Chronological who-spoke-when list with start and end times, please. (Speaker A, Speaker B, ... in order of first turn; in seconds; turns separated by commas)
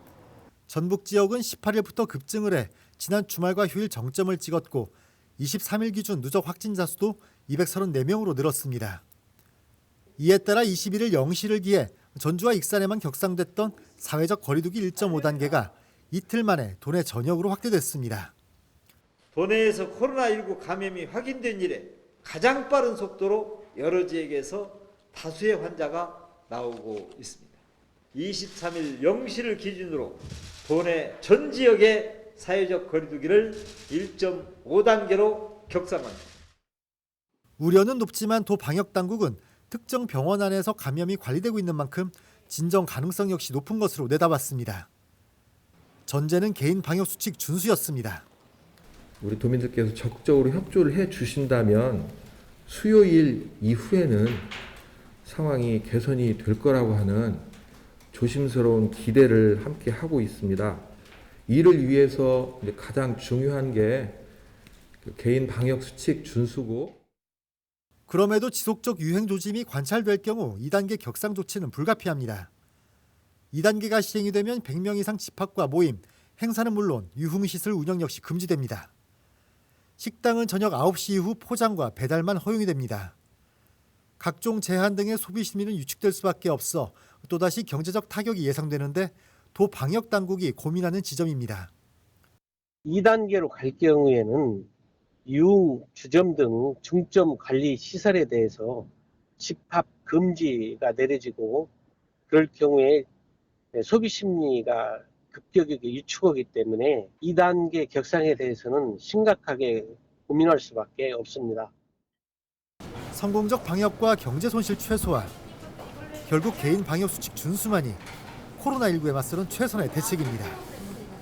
Speaker A: 0.7-9.0, Speaker A: 10.2-18.3, Speaker B: 19.3-27.6, Speaker B: 28.1-36.2, Speaker A: 37.6-44.9, Speaker A: 46.1-48.3, Speaker C: 49.2-54.5, Speaker C: 55.2-57.5, Speaker C: 58.1-60.9, Speaker C: 61.5-64.2, Speaker C: 65.0-67.0, Speaker A: 68.1-72.5, Speaker A: 73.5-78.9, Speaker A: 80.0-83.2, Speaker A: 84.2-91.7, Speaker D: 92.8-94.7, Speaker D: 95.3-101.7, Speaker D: 102.3-103.1, Speaker D: 103.7-111.7, Speaker A: 113.1-115.3, Speaker A: 116.3-118.0, Speaker A: 118.6-120.6